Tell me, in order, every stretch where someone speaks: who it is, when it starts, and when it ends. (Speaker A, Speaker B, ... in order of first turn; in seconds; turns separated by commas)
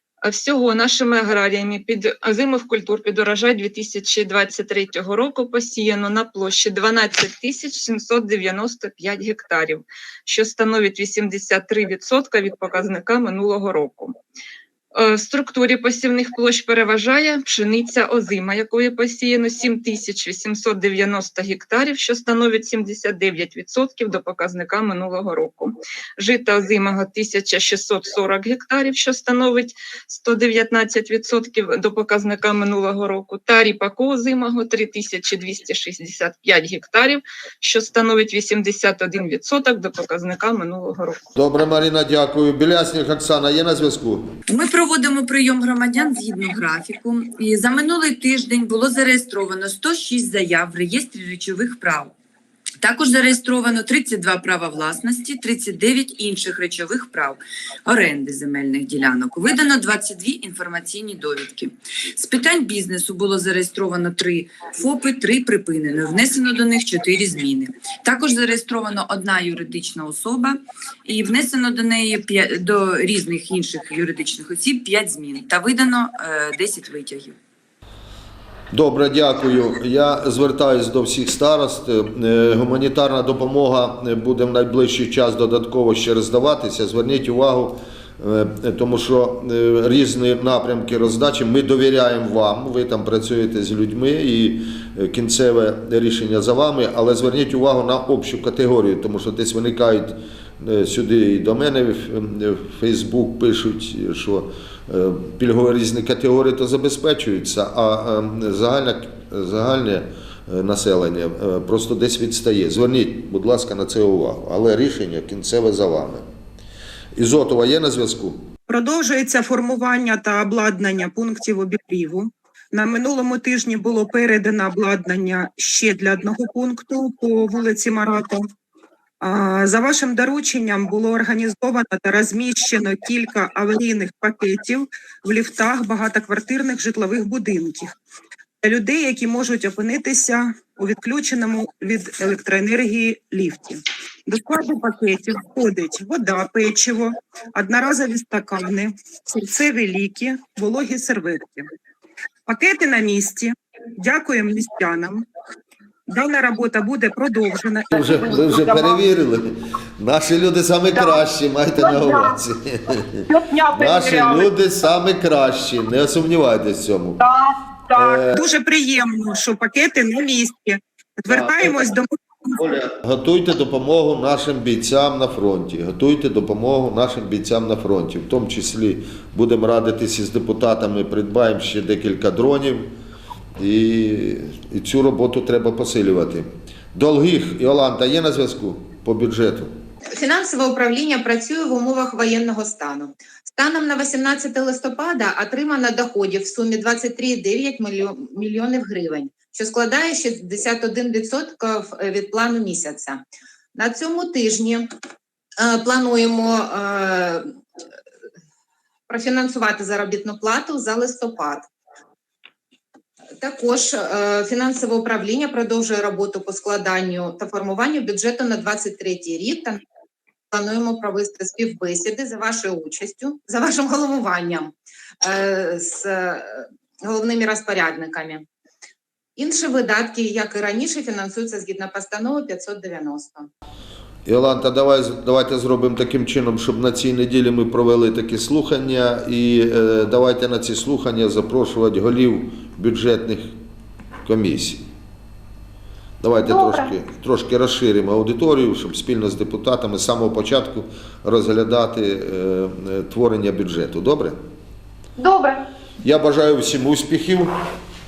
Speaker A: 0.2-14.2, Speaker A: 14.9-41.2, Speaker B: 41.4-44.3, Speaker C: 44.5-52.1, Speaker C: 52.8-77.4, Speaker B: 78.7-116.2, Speaker B: 117.2-118.5, Speaker D: 118.7-128.4, Speaker D: 129.2-138.0, Speaker D: 138.6-151.7, Speaker D: 152.5-155.2, Speaker D: 156.1-159.0, Speaker B: 157.9-167.2, Speaker D: 161.8-162.3, Speaker D: 163.3-164.5, Speaker D: 167.2-172.7, Speaker B: 167.9-168.4, Speaker B: 171.3-171.7, Speaker B: 172.6-182.9, Speaker B: 183.6-189.7, Speaker E: 190.2-203.2, Speaker E: 203.8-204.9, Speaker E: 205.6-207.6, Speaker E: 209.1-211.7, Speaker E: 213.4-219.8, Speaker E: 220.5-228.4, Speaker E: 229.4-233.5, Speaker B: 234.3-243.5, Speaker B: 244.2-244.9, Speaker B: 246.2-254.4, Speaker D: 255.2-255.5, Speaker B: 256.0-257.5